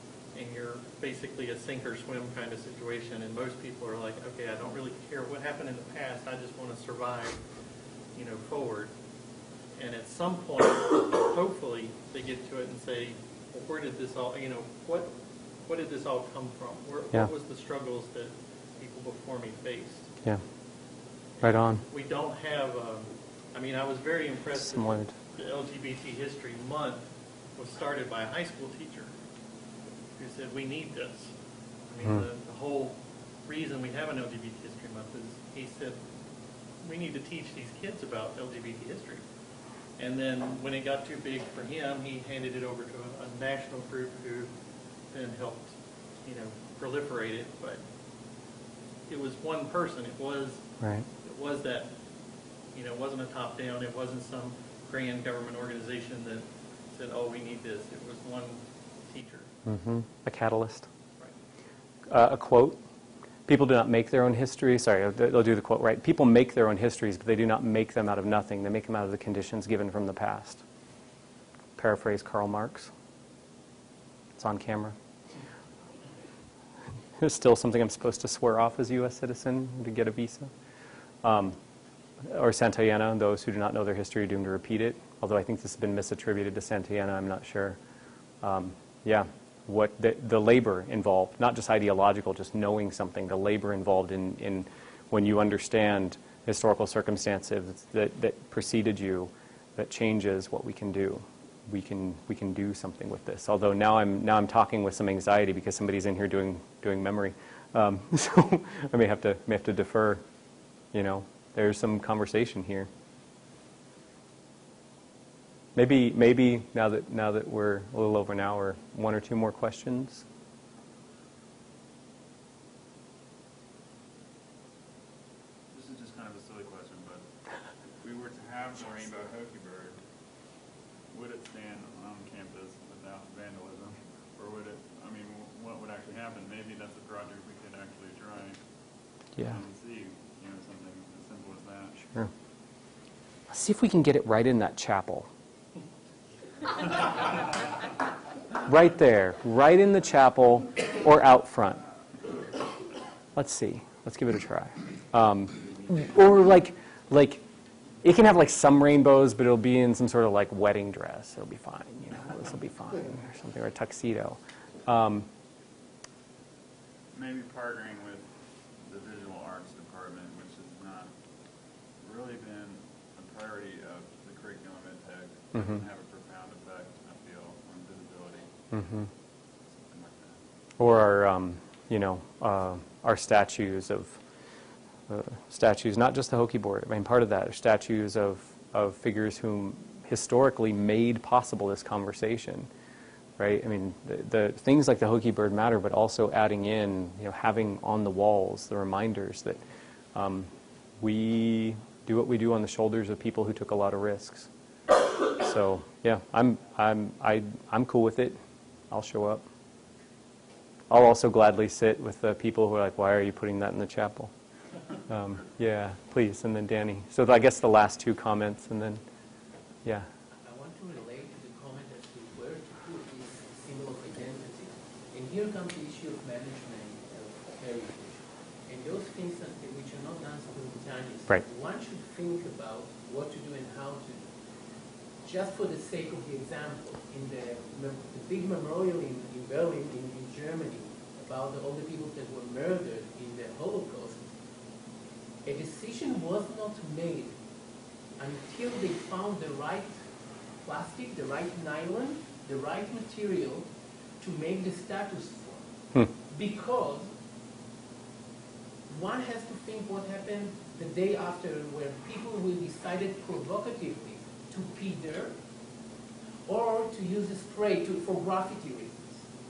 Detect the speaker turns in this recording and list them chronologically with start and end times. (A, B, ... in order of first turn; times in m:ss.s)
0:00.3-0:07.4 A
0:08.1-0:08.9 A
0:09.7-0:20.1 A
0:21.4-0:29.2 A
0:21.4-0:21.8 B
0:24.6-0:25.1 B
0:30.2-0:31.3 A
0:31.9-0:36.0 A
0:36.8-0:39.2 A
0:40.0-0:44.5 A
0:45.1-0:47.8 A
0:49.1-0:51.9 A
0:50.8-0:51.0 B
0:52.7-0:59.5 A
0:59.6-1:00.9 B
1:02.1-1:02.8 B
1:03.5-1:10.6 B
1:11.8-1:12.9 B
1:14.4-1:14.9 B
1:17.2-1:20.5 B
1:21.2-1:21.6 B
1:22.2-1:27.8 B
1:28.4-1:50.2 B
1:50.9-1:52.9 B
1:55.7-2:00.2 B
2:05.7-2:07.2 C
2:08.0-2:10.0 C
2:11.1-2:18.6 C
2:19.4-2:22.0 C
2:23.5-2:25.3 B
2:28.6-2:31.8 B
2:33.3-2:37.4 B
2:38.0-2:45.3 B
2:47.1-2:48.2 C
2:48.8-2:51.1 C
2:52.0-2:58.5 C
2:55.5-2:55.8 B
2:58.7-2:59.1 B
2:59.7-3:00.4 C
3:00.8-3:04.2 B
3:05.1-3:12.7 B
3:13.4-3:19.6 B
3:20.1-3:20.5 B
3:21.0-3:24.5 B
3:25.3-3:28.4 B
3:28.9-3:29.4 B
3:30.9-3:34.3 B
3:35.1-3:39.0 B
3:40.4-3:54.3 D
3:55.2-4:04.3 D
4:05.4-4:07.4 D
4:08.2-4:10.0 D
4:10.6-4:13.7 D
4:14.2-4:15.7 D
4:16.3-4:17.1 D
4:18.9-4:25.4 D
4:26.5-4:29.2 D